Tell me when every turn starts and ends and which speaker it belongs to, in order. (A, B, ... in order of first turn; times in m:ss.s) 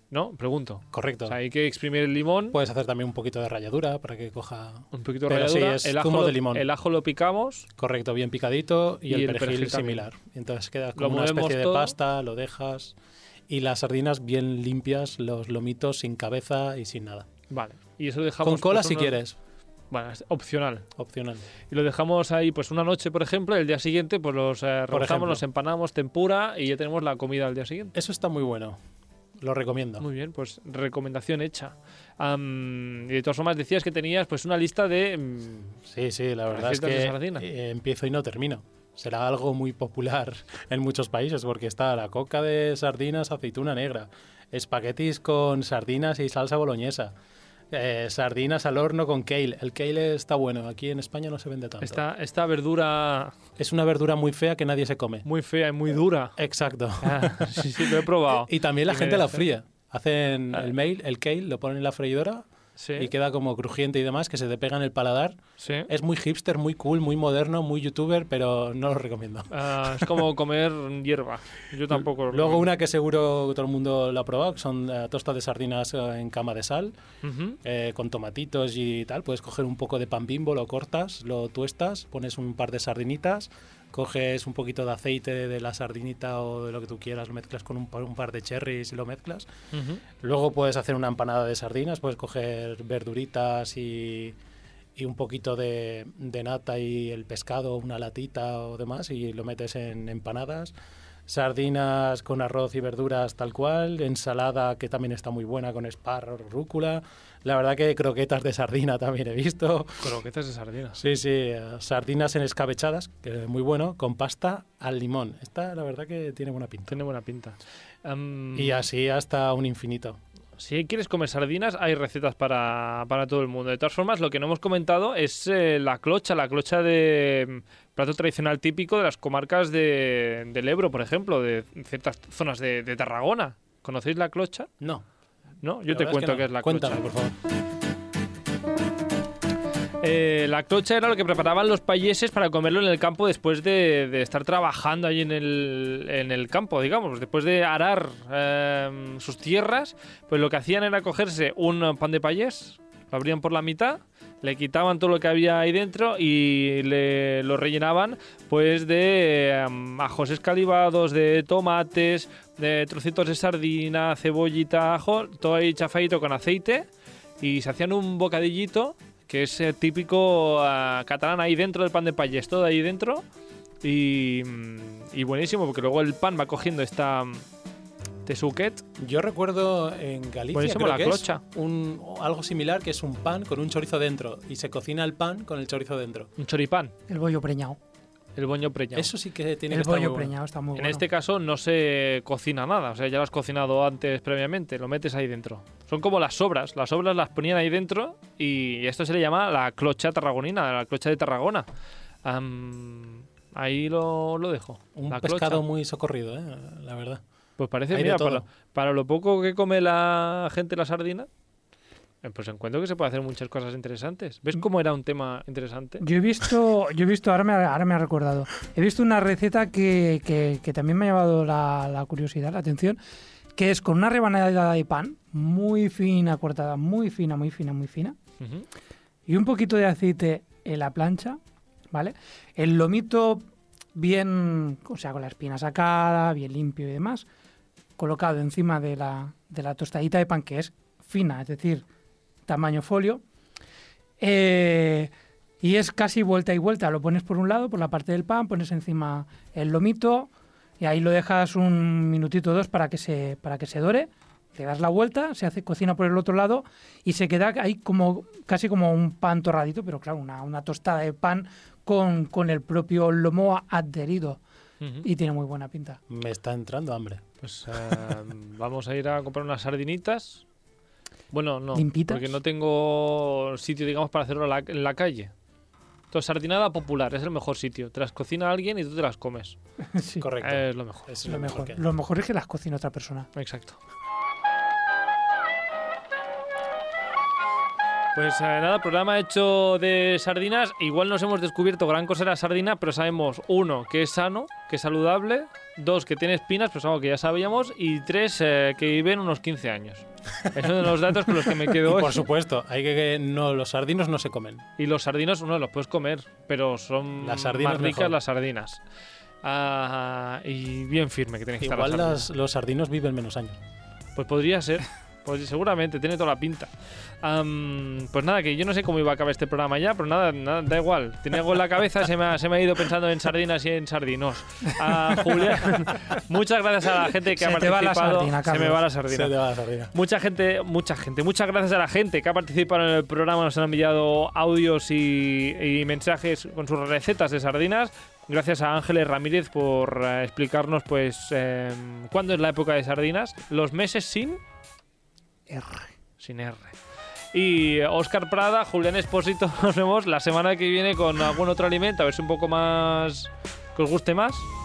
0:00.1-0:02.6 A
0:00.9-0:01.4 B
0:02.5-0:06.7 B
0:04.9-0:07.7 A
0:07.8-0:12.9 B
0:09.1-0:10.0 A
0:11.0-0:11.9 A
0:13.5-0:17.3 B
0:17.5-0:19.2 A
0:18.4-0:19.4 B
0:19.9-0:20.9 A
0:21.0-0:21.4 B
0:21.7-0:27.9 A
0:24.9-0:25.4 B
0:27.9-0:28.8 B
0:29.4-0:30.1 B
0:30.0-0:35.8 A
0:35.8-0:47.1 B
0:36.5-0:37.4 A
0:47.7-0:52.0 B
0:51.8-0:53.3 A
0:53.6-0:55.2 B
0:55.2-0:56.4 A
0:56.4-1:10.1 B
0:57.0-0:59.4 A
1:02.8-1:03.1 A
1:05.6-1:05.9 A
1:09.5-1:12.7 A
1:11.9-1:16.9 B
1:17.2-1:17.6 A
1:17.6-1:29.5 B
1:29.7-1:30.0 A
1:30.2-1:34.4 B
1:35.0-1:40.7 B
1:41.3-1:50.1 B
1:50.0-1:51.0 A
1:51.0-1:57.0 B
1:56.9-1:58.8 A
1:58.5-2:00.2 B
2:00.6-2:14.7 A
2:15.6-2:17.1 A
2:15.9-2:17.4 B
2:20.0-2:46.9 A
2:47.4-2:53.2 A
2:53.8-2:57.4 A
2:58.2-2:58.8 A
2:59.0-3:06.3 B
3:00.5-3:01.4 A
3:06.4-3:06.9 A
3:07.1-3:07.8 C
3:08.4-3:09.1 A
3:08.9-3:10.3 B
3:09.7-3:11.0 C
3:10.8-3:21.6 A
3:22.2-3:25.6 A
3:24.9-3:27.2 B
3:27.6-3:31.3 A
3:27.9-3:28.4 B
3:32.2-3:36.0 A
3:36.0-3:43.0 C
3:43.6-3:48.2 C
3:49.3-3:51.4 C
3:51.9-3:57.2 C
3:58.0-4:01.8 C
4:02.5-4:03.2 C
4:04.2-4:10.3 C
4:10.8-4:24.4 C
4:24.8-4:25.0 A
4:25.0-4:26.0 C
4:26.1-4:27.2 B
4:27.4-4:30.4 A
4:31.3-4:35.3 A
4:31.7-4:32.3 C
4:36.1-4:39.6 A
4:39.9-4:40.2 C
4:40.2-4:41.8 B
4:40.4-4:41.1 A
4:41.2-4:43.3 C
4:43.4-4:43.8 A
4:48.1-5:02.2 A
5:01.3-5:04.6 B
5:04.8-5:08.8 A
5:07.2-5:08.2 B
5:09.4-5:12.3 A
5:11.6-5:13.6 B
5:14.2-5:16.7 A
5:17.2-5:29.3 A
5:27.4-5:28.8 C
5:29.1-5:29.9 B
5:29.9-5:44.4 A
5:45.5-5:45.9 C
5:46.2-5:46.8 A
5:47.3-5:54.5 A